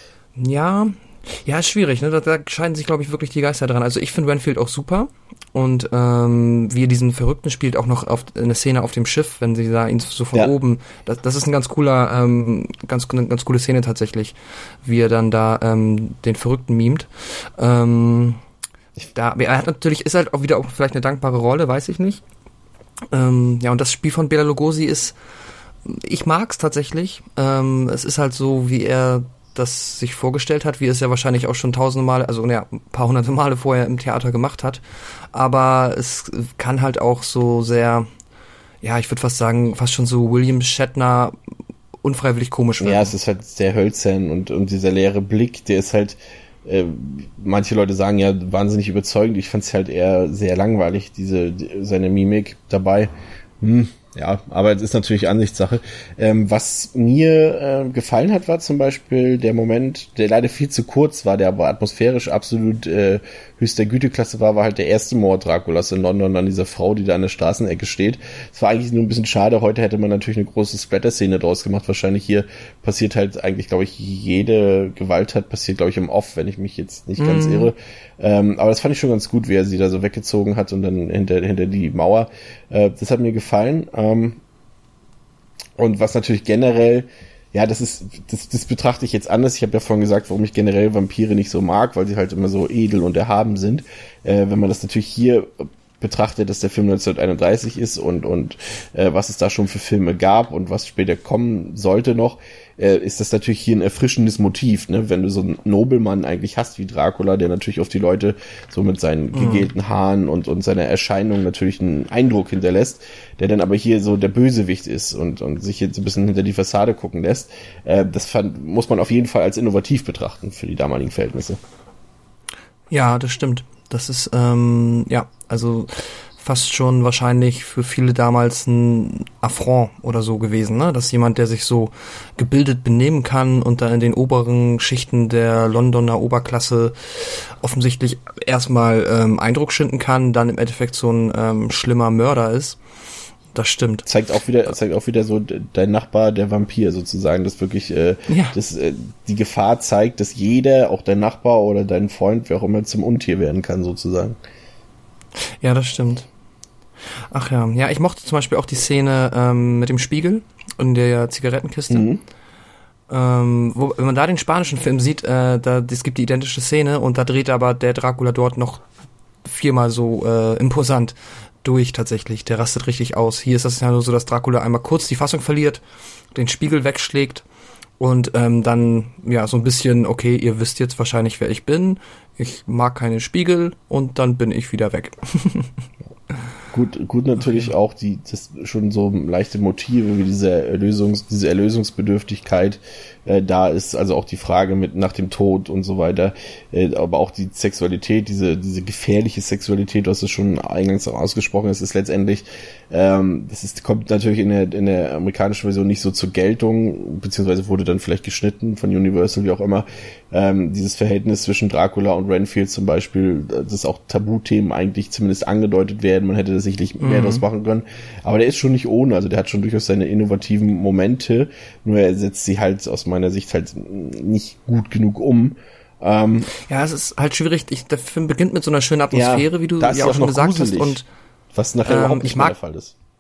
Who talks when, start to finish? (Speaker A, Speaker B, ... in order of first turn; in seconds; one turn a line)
Speaker A: 0.4-18.4
Speaker A: 19.1-22.2
Speaker A: 23.1-25.2
Speaker A: 25.9-34.8
Speaker A: 35.3-38.1
Speaker A: 38.8-41.3
Speaker A: 42.0-43.1
Speaker B: 42.8-84.4
Speaker A: 77.2-77.7
Speaker B: 85.8-121.6
Speaker A: 109.3-109.7
Speaker A: 122.9-142.8
Speaker A: 143.5-144.1
Speaker B: 144.1-154.4
Speaker A: 148.3-148.6
Speaker A: 155.6-156.3
Speaker A: 157.3-162.1
Speaker B: 161.9-162.2
Speaker A: 163.1-168.8
Speaker A: 169.4-175.8
Speaker A: 176.3-177.4
Speaker A: 178.0-185.7
Speaker B: 186.7-226.5
Speaker A: 217.0-217.4
Speaker A: 226.7-231.1
Speaker B: 229.1-231.0
Speaker B: 231.5-232.9
Speaker A: 231.9-232.6